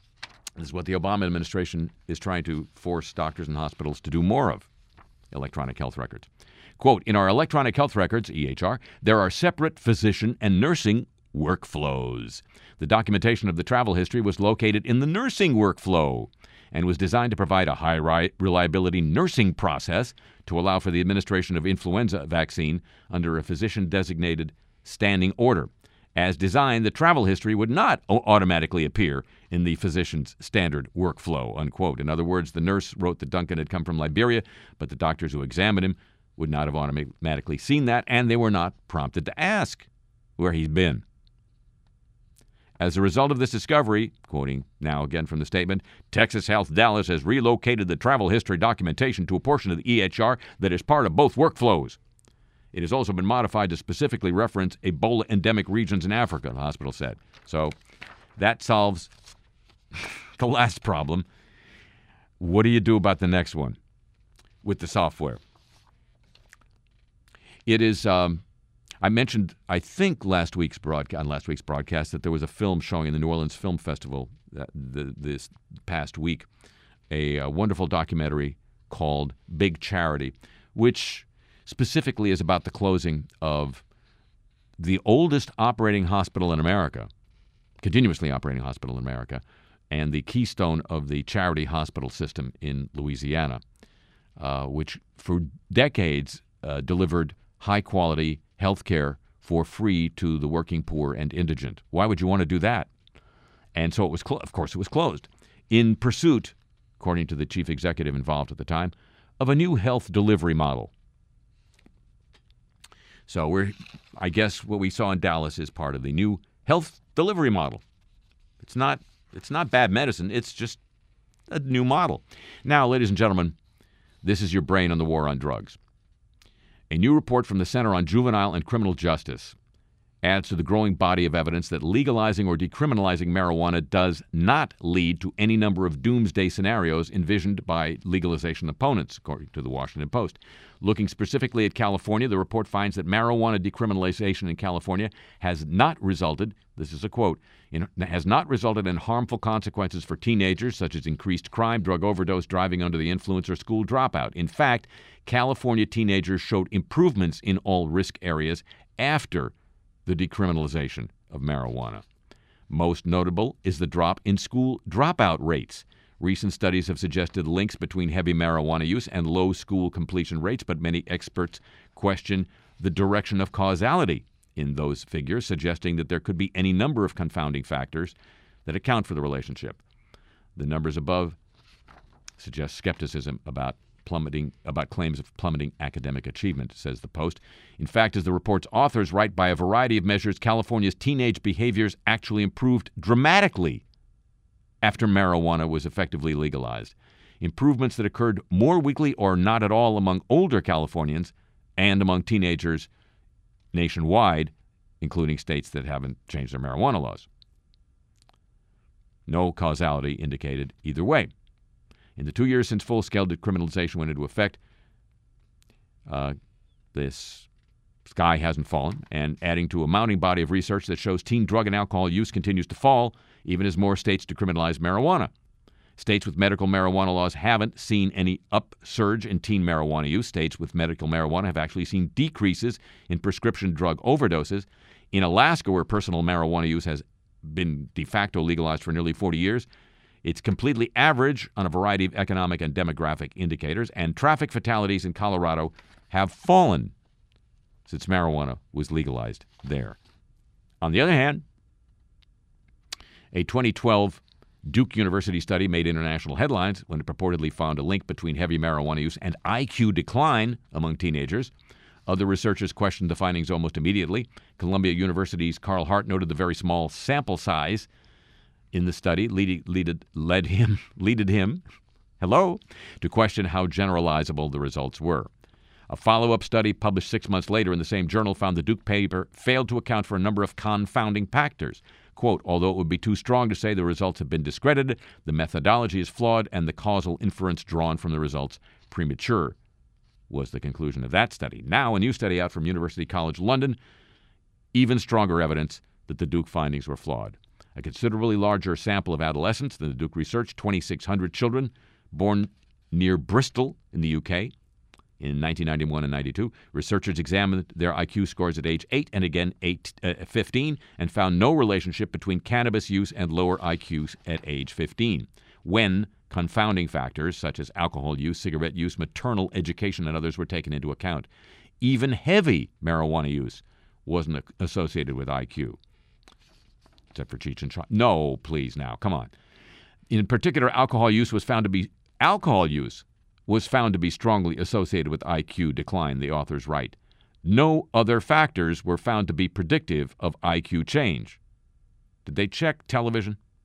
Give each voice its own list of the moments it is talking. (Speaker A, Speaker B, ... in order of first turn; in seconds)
Speaker A: 0.6-4.7, 5.3-6.3, 6.8-41.0, 42.8-52.0, 52.7-57.8, 58.4-59.1, 60.0-61.3, 62.4-63.8, 64.6-65.4, 67.7-68.4, 69.0-76.5, 77.1-83.8, 84.8-87.1, 87.8-93.6, 94.4-102.9, 103.8-110.9, 113.3-117.8, 118.6-120.8, 121.5-123.5, 124.2-125.8, 126.9-129.6, 130.2-159.5, 160.1-162.0, 162.7-178.1, 178.7-179.8, 180.6-181.4, 182.4-193.8, 194.8-202.9, 203.7-207.3, 209.3-211.3, 212.2-214.6, 216.1-216.3, 216.9-217.5, 218.1-225.3, 226.0-239.7, 240.2-246.9, 247.9-250.0, 250.8-251.4, 253.3-261.5, 262.1-267.9, 268.7-271.6, 272.2-275.3, 275.9-289.6, 290.3-293.8, 294.7-304.5, 305.2-321.3, 321.8-325.8, 327.1-329.3, 330.1-341.4, 342.2-343.4